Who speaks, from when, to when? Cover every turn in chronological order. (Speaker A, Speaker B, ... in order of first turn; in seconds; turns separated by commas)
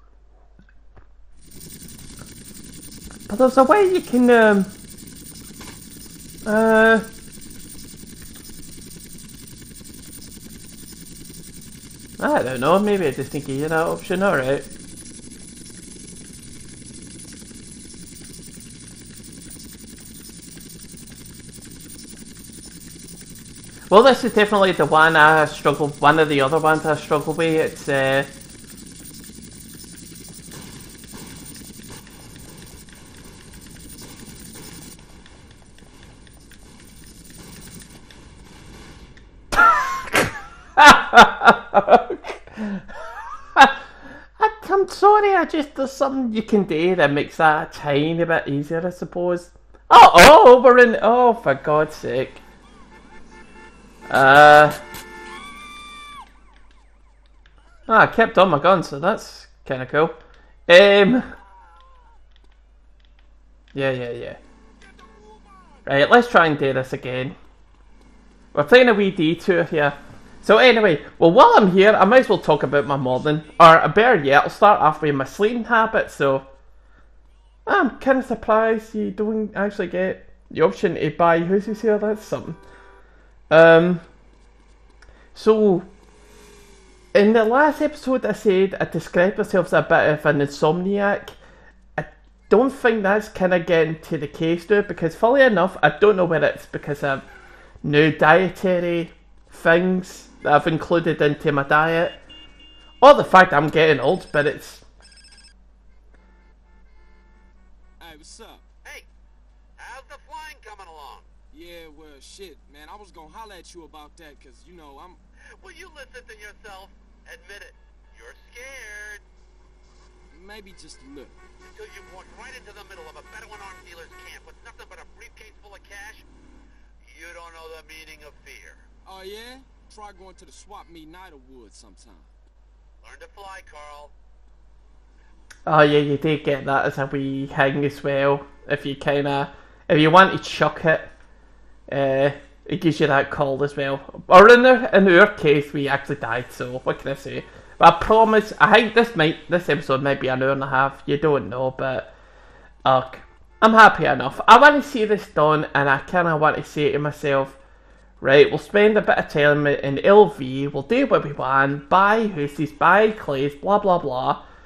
Speaker A: 3.3-4.7, Speaker A: 6.4-7.1, Speaker A: 12.2-14.7, Speaker A: 23.9-28.3, Speaker A: 39.5-42.9, Speaker A: 43.5-43.9, Speaker A: 44.4-52.4, Speaker A: 54.1-54.8, Speaker A: 57.9-60.2, Speaker A: 60.7-61.3, Speaker A: 63.7-64.4, Speaker A: 65.8-67.3, Speaker A: 68.5-76.5, Speaker A: 77.7-82.6, Speaker A: 83.5-84.0, Speaker A: 85.3-85.9, Speaker A: 87.1-91.4, Speaker A: 92.0-97.2, Speaker A: 97.8-102.2, Speaker A: 103.0-104.8, Speaker B: 108.0-108.6, Speaker C: 109.8-111.3, Speaker B: 111.5-115.2, Speaker C: 115.6-119.2, Speaker B: 120.3-121.4, Speaker C: 121.6-126.2, Speaker C: 127.0-128.8, Speaker B: 129.0-132.3, Speaker C: 133.0-134.1, Speaker A: 135.7-141.1, Speaker A: 141.9-152.1, Speaker A: 152.8-157.6, Speaker A: 158.2-164.4